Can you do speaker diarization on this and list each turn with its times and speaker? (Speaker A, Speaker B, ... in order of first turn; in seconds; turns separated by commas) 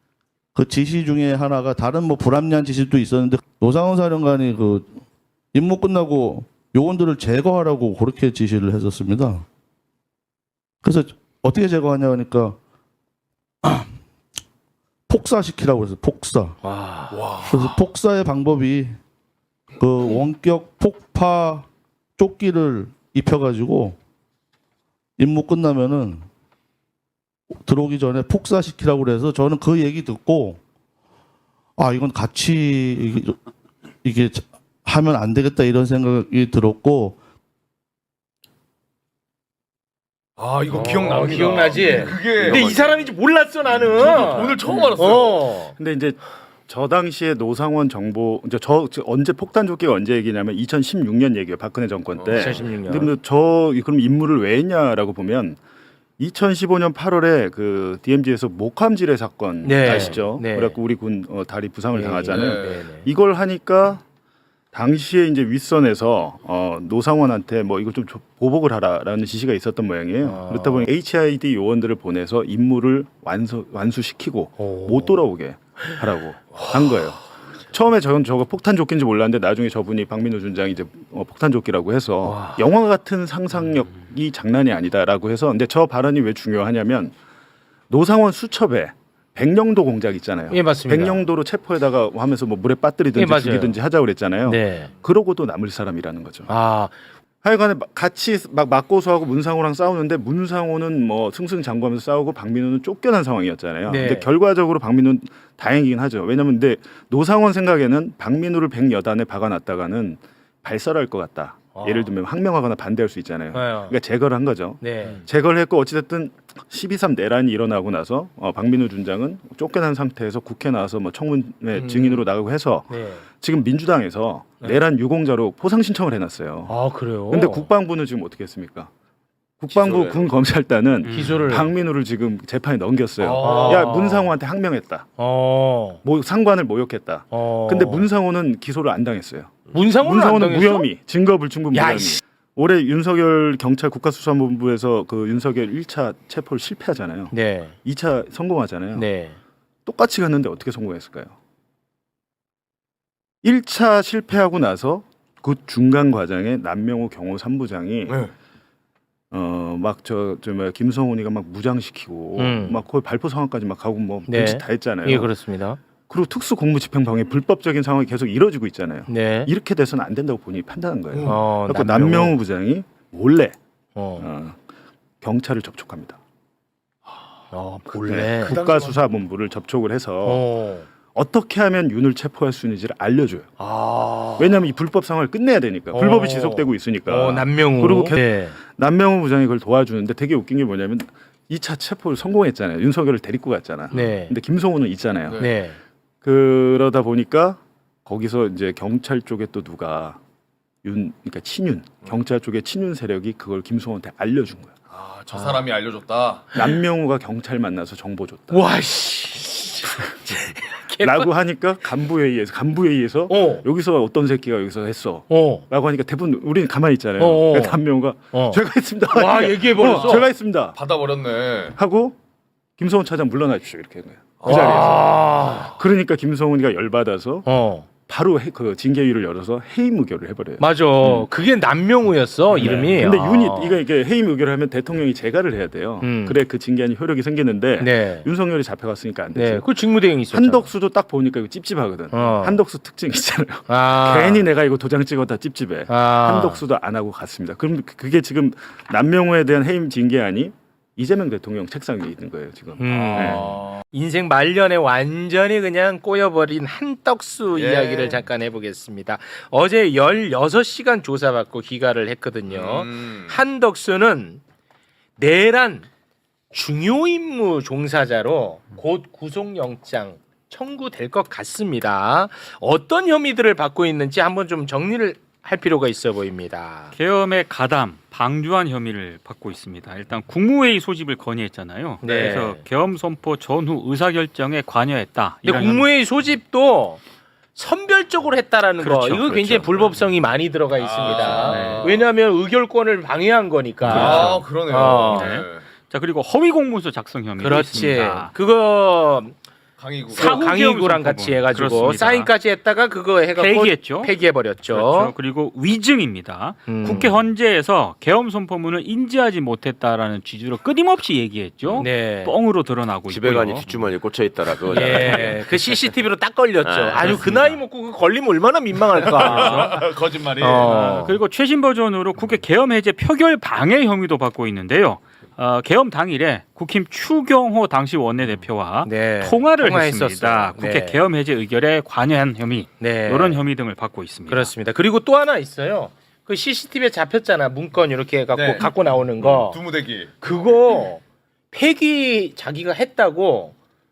Speaker A: 0.6-5.0, Speaker A: 5.5-9.4, Speaker A: 10.8-12.6, Speaker A: 13.6-14.0, Speaker A: 15.1-16.6, Speaker B: 16.6-17.2, Speaker C: 17.1-17.6, Speaker A: 17.5-19.0, Speaker A: 19.8-24.0, Speaker A: 25.2-26.3, Speaker A: 27.6-30.6, Speaker A: 31.8-33.4, Speaker A: 34.0-37.2, Speaker C: 40.4-45.6, Speaker B: 40.7-45.8, Speaker D: 44.6-45.0, Speaker D: 45.8-55.6, Speaker C: 52.1-52.7, Speaker B: 52.3-53.1, Speaker D: 56.2-64.0, Speaker B: 59.6-60.8, Speaker B: 61.9-63.1, Speaker C: 62.3-62.8, Speaker D: 64.7-77.2, Speaker B: 70.2-70.9, Speaker B: 74.6-75.2, Speaker D: 77.7-87.2, Speaker B: 82.2-82.6, Speaker D: 87.9-96.5, Speaker B: 90.5-91.2, Speaker B: 93.2-93.8, Speaker B: 94.4-94.9, Speaker B: 96.5-97.0, Speaker D: 97.4-126.8, Speaker B: 103.9-104.3, Speaker B: 111.8-112.1, Speaker B: 113.5-114.0, Speaker B: 114.8-115.2, Speaker C: 121.7-122.2, Speaker B: 122.9-123.2, Speaker B: 126.7-127.7, Speaker D: 127.3-128.9, Speaker D: 129.6-135.1, Speaker C: 129.8-130.3, Speaker E: 131.0-131.5, Speaker B: 131.1-131.7, Speaker C: 133.2-133.9, Speaker B: 133.4-134.4, Speaker B: 135.2-136.0, Speaker D: 136.0-149.1, Speaker B: 137.3-138.1, Speaker B: 139.7-140.9, Speaker B: 141.7-142.2, Speaker B: 147.3-147.8, Speaker B: 148.9-149.4, Speaker D: 149.9-151.3, Speaker D: 153.4-158.2, Speaker C: 158.1-158.3, Speaker D: 159.3-165.3, Speaker B: 162.4-162.8, Speaker B: 164.3-165.8, Speaker D: 166.1-173.6, Speaker B: 169.1-169.5, Speaker C: 171.1-171.4, Speaker B: 171.3-172.4, Speaker B: 173.9-174.3, Speaker D: 174.2-174.6, Speaker D: 175.2-176.2, Speaker B: 177.5-178.6, Speaker D: 178.0-180.5, Speaker C: 178.5-179.0, Speaker B: 180.2-180.9, Speaker D: 181.1-183.5, Speaker B: 183.6-184.6, Speaker D: 184.4-195.5, Speaker B: 185.9-188.6, Speaker B: 193.9-194.3, Speaker C: 195.3-195.5, Speaker B: 195.4-195.8, Speaker D: 196.2-200.2, Speaker D: 200.8-204.7, Speaker C: 204.9-206.5, Speaker B: 205.3-205.7, Speaker D: 206.5-208.7, Speaker B: 208.5-211.3, Speaker D: 211.0-220.8, Speaker B: 213.3-213.7, Speaker B: 215.3-215.6, Speaker B: 217.2-217.8, Speaker B: 218.3-220.3, Speaker C: 219.9-220.2, Speaker C: 220.7-221.8, Speaker D: 221.7-222.2, Speaker D: 222.8-227.5, Speaker C: 224.4-225.7, Speaker B: 224.5-225.7, Speaker B: 227.5-227.9, Speaker D: 228.1-231.3, Speaker B: 230.6-233.8, Speaker D: 232.5-239.7, Speaker B: 236.0-236.4, Speaker B: 237.8-238.3, Speaker B: 239.3-240.7, Speaker D: 240.3-253.4, Speaker B: 242.1-242.6, Speaker B: 243.7-244.5, Speaker B: 245.9-246.6, Speaker B: 252.8-264.4, Speaker C: 253.0-253.8, Speaker C: 257.5-258.2, Speaker C: 262.5-263.4, Speaker B: 265.2-265.9, Speaker B: 266.5-276.9, Speaker E: 276.9-285.9, Speaker B: 282.0-282.7, Speaker B: 285.4-287.0, Speaker B: 287.6-295.3, Speaker E: 288.8-289.7, Speaker C: 290.8-292.1, Speaker E: 291.3-291.9, Speaker E: 293.8-294.4, Speaker C: 293.9-295.6, Speaker E: 295.1-298.3, Speaker B: 297.4-299.4, Speaker C: 299.8-300.4, Speaker E: 300.1-302.3, Speaker B: 300.1-305.1, Speaker E: 303.4-313.9, Speaker B: 306.7-307.2, Speaker B: 311.8-312.4, Speaker F: 313.1-315.6, Speaker B: 314.7-319.8, Speaker F: 316.6-317.5, Speaker C: 319.0-321.0, Speaker E: 319.2-319.7, Speaker B: 320.4-321.2, Speaker E: 320.6-334.5, Speaker B: 328.8-331.0, Speaker B: 332.8-333.4, Speaker B: 334.3-339.6, Speaker C: 338.3-340.1, Speaker B: 340.2-343.6